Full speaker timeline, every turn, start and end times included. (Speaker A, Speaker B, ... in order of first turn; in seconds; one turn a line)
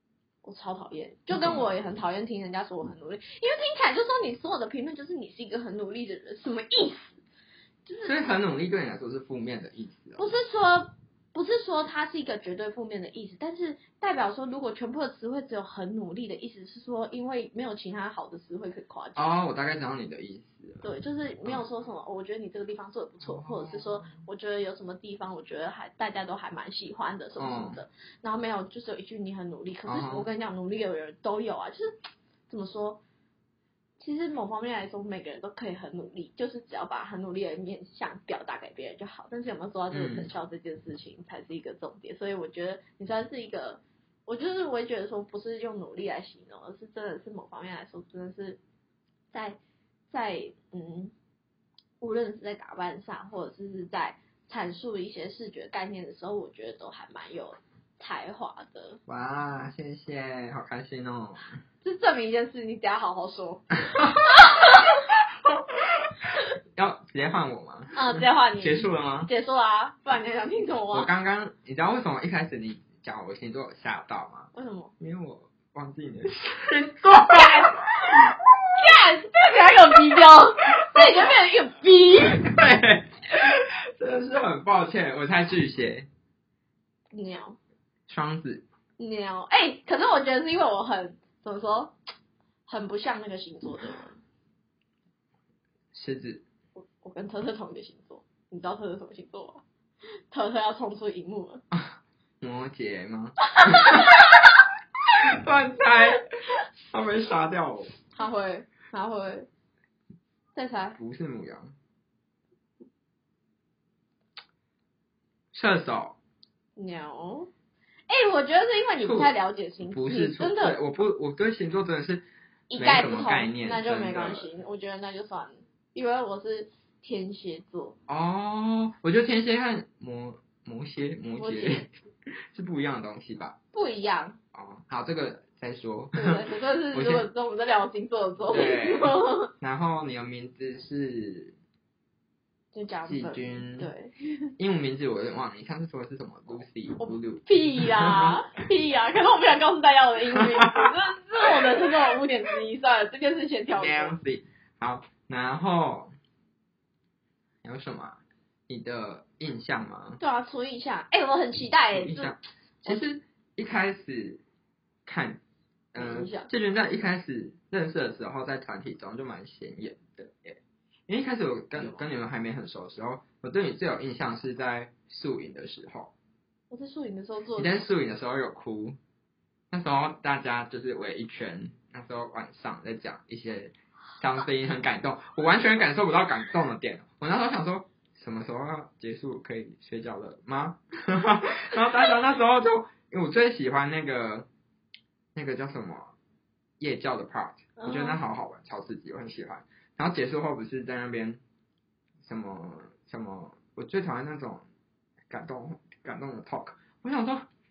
Speaker A: 0.4-7.2
Speaker B: 1.3-1.7
Speaker A: 7.9-8.2
Speaker B: 8.0-10.4
Speaker A: 10.2-19.4
Speaker B: 19.2-20.9
Speaker A: 20.8-31.9
Speaker B: 23.2-24.2
Speaker B: 27.4-27.8
Speaker B: 29.9-30.3
Speaker A: 32.5-33.0
Speaker A: 34.0-48.6
Speaker B: 39.9-40.3
Speaker A: 49.3-49.6
Speaker A: 50.1-51.1
Speaker A: 52.0-59.0
Speaker B: 59.1-61.5
Speaker A: 61.8-65.0
Speaker B: 66.8-69.3
Speaker A: 68.0-71.1
Speaker B: 70.9-78.3
Speaker A: 74.5-74.9
Speaker A: 77.3-77.8
Speaker A: 78.8-82.5
Speaker B: 82.2-86.1
Speaker A: 87.1-87.6
Speaker B: 88.1-88.6
Speaker A: 89.0-92.0
Speaker A: 92.7-94.2
Speaker B: 95.9-96.5
Speaker A: 96.8-99.6
Speaker A: 100.3-101.6
Speaker B: 101.7-104.2
Speaker A: 103.8-104.2
Speaker B: 105.3-106.2
Speaker B: 106.8-107.9
Speaker A: 108.1-109.5
Speaker A: 110.5-111.0
Speaker B: 111.0-111.7
Speaker B: 115.5-116.2
Speaker A: 116.8-117.5
Speaker A: 118.1-120.8
Speaker B: 119.0-124.5
Speaker A: 122.7-128.0
Speaker B: 128.1-131.9
Speaker A: 131.4-131.8
Speaker B: 132.5-133.6
Speaker A: 133.7-134.4
Speaker B: 134.5-137.3
Speaker A: 136.1-139.5
Speaker B: 138.5-141.6
Speaker A: 142.7-144.5
Speaker B: 143.1-143.9
Speaker B: 144.6-148.4
Speaker A: 147.0-154.2
Speaker B: 150.4-150.8
Speaker B: 153.8-156.1
Speaker B: 157.6-160.2
Speaker A: 160.2-163.0
Speaker B: 161.9-164.4
Speaker B: 165.1-165.4
Speaker B: 165.9-176.2
Speaker A: 166.0-166.5
Speaker A: 171.8-172.0
Speaker A: 176.7-177.8
Speaker B: 177.6-179.0
Speaker B: 179.7-194.5
Speaker B: 195.3-196.2
Speaker B: 196.8-201.4
Speaker A: 197.8-198.2
Speaker B: 202.2-204.7
Speaker B: 205.3-207.5